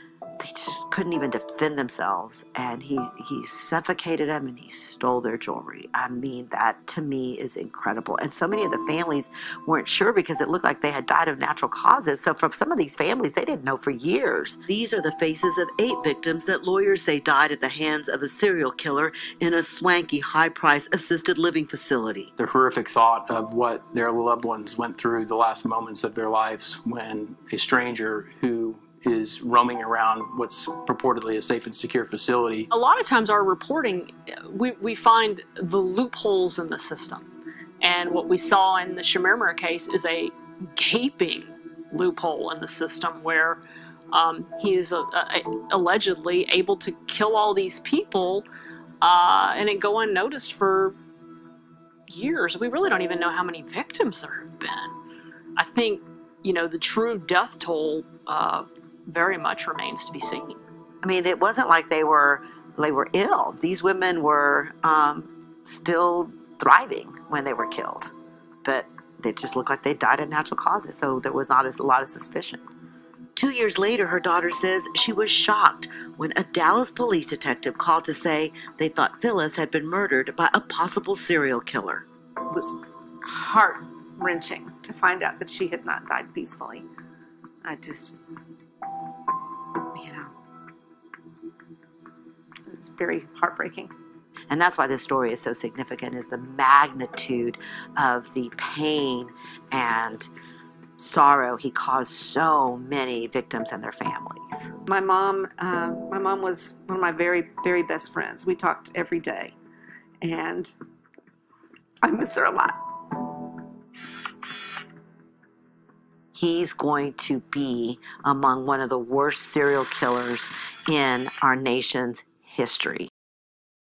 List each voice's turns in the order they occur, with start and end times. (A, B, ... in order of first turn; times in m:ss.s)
0:00.4-0:22.3 A
0:22.4-0:32.7 B
0:32.7-0:37.3 C
0:37.8-0:48.5 C
0:49.0-0:51.0 C
0:52.1-0:55.0 C
0:55.6-1:00.6 C
1:01.0-1:08.1 A
1:08.6-1:12.6 A
1:13.4-1:22.0 A
1:22.5-1:26.9 D
1:27.6-1:28.2 D
1:29.9-1:30.3 D
1:32.7-1:33.9 D
1:34.5-1:40.3 A
1:41.0-1:44.7 A
1:44.9-1:49.6 D
1:50.2-1:50.8 D
1:52.0-1:53.4 D
1:56.4-2:03.1 A